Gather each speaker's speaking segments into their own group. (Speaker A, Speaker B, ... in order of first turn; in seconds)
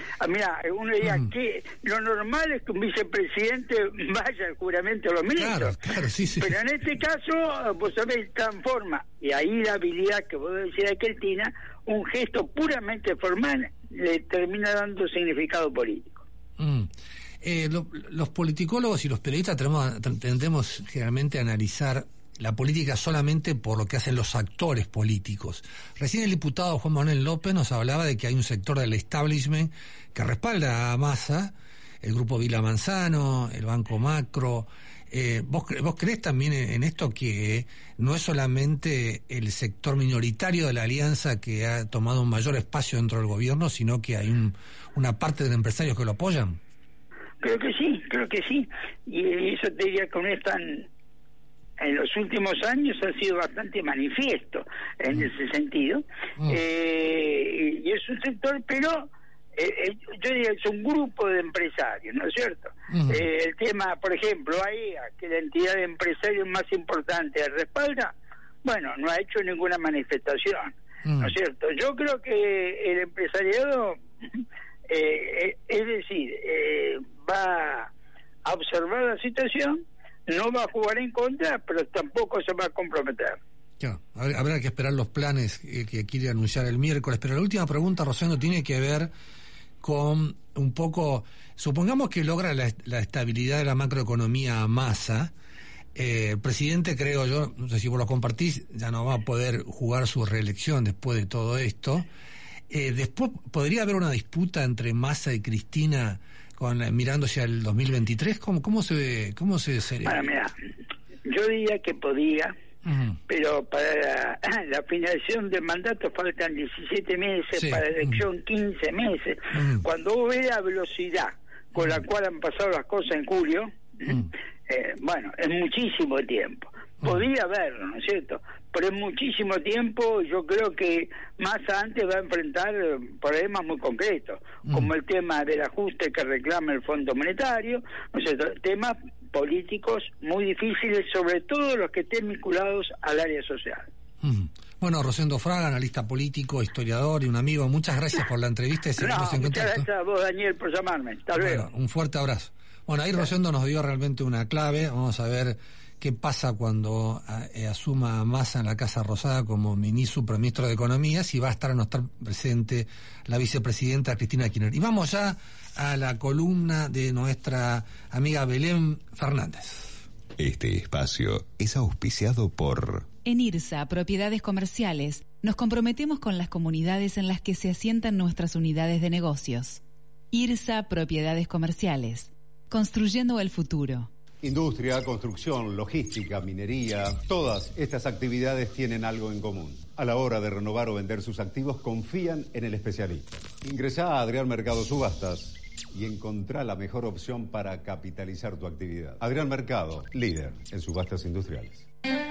Speaker A: 0.2-5.8, 6.4-16.2, 47.4-50.9, 51.8-68.1, 68.6-74.0, 74.9-77.9, 78.4-83.4, 110.0-110.5, 111.2-112.5, 113.3-143.8, 149.0-151.6
Speaker B: 1.0-1.3, 5.4-6.6, 16.6-16.9, 17.4-46.6, 62.9-63.2, 71.0-71.3, 83.8-89.1, 89.8-95.3, 95.9-102.0, 102.7-110.2, 112.8-113.2, 117.5-118.2, 119.5-119.8, 121.8-122.0, 134.7-134.9, 144.2-149.9, 151.3-169.9
Speaker C: 170.4-173.1
Speaker D: 173.2-184.1
Speaker E: 184.4-201.8